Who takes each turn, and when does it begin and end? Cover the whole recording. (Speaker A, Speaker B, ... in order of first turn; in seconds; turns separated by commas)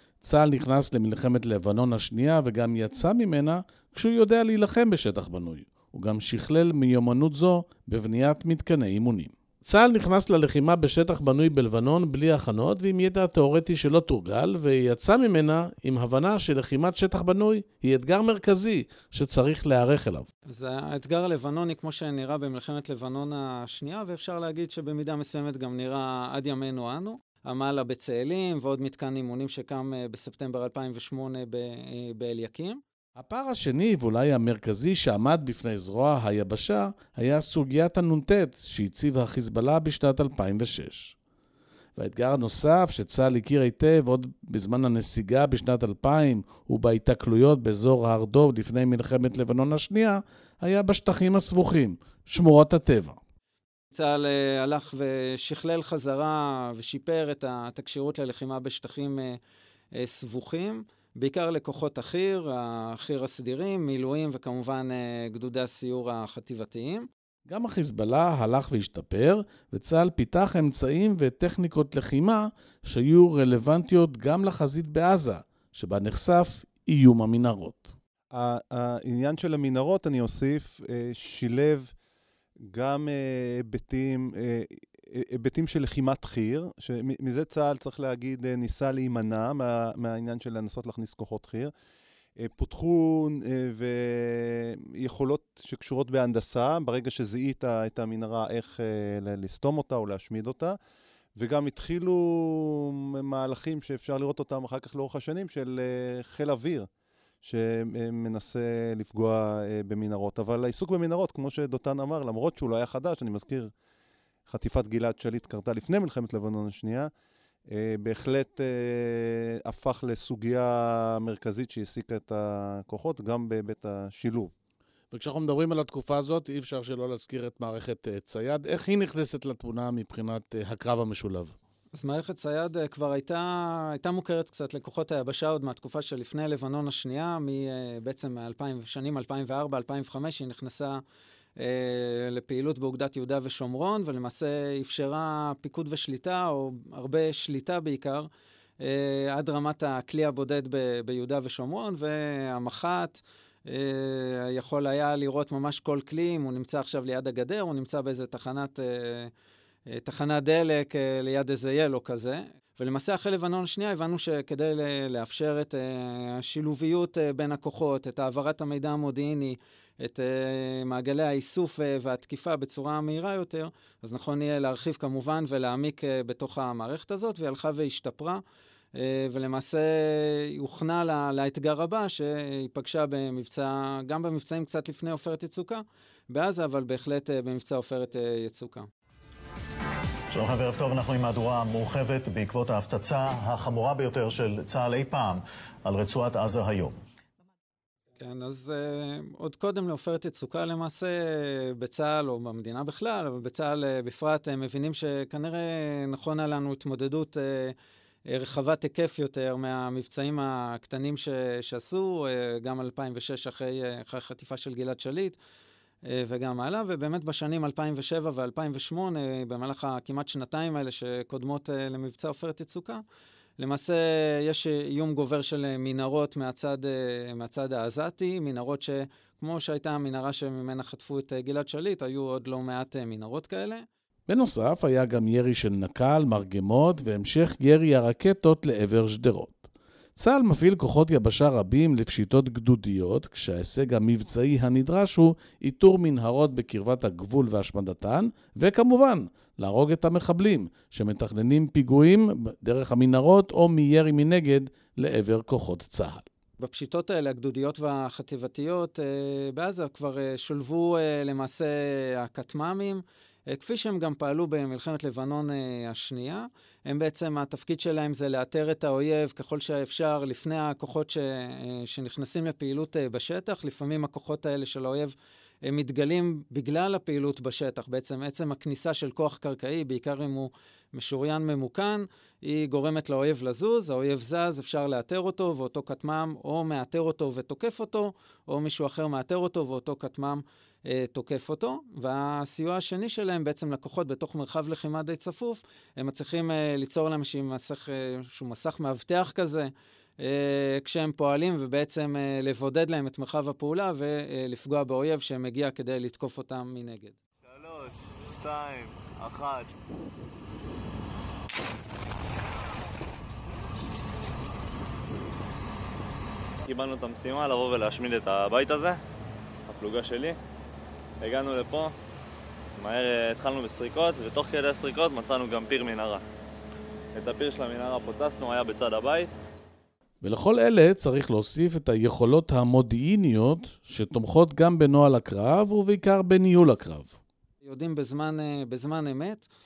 Speaker A: 0.2-20.3, Speaker B: 20.5-32.8, Speaker A: 33.2-41.2, Speaker A: 42.0-53.2, Speaker B: 53.9-59.4, Speaker B: 60.0-67.1, Speaker A: 67.5-78.0, Speaker C: 78.3-81.9, Speaker C: 82.7-91.7, Speaker C: 92.4-100.8, Speaker C: 101.4-106.9, Speaker C: 107.4-113.7, Speaker C: 114.5-117.1, Speaker C: 117.7-124.5, Speaker A: 125.1-131.6, Speaker B: 131.9-141.0, Speaker B: 141.6-148.3, Speaker B: 148.8-159.3, Speaker B: 159.9-178.4, Speaker B: 178.9-188.9, Speaker D: 190.3-197.0, Speaker B: 198.2-207.8, Speaker B: 208.3-215.4, Speaker B: 216.1-223.0, Speaker B: 223.6-233.8, Speaker A: 234.3-256.3, Speaker B: 256.6-307.2, Speaker E: 307.5-309.7, Speaker E: 316.7-319.0, Speaker E: 319.7-320.4, Speaker E: 321.2-321.9, Speaker E: 322.8-326.2, Speaker E: 327.2-329.3, Speaker A: 330.2-337.2, Speaker B: 337.6-339.5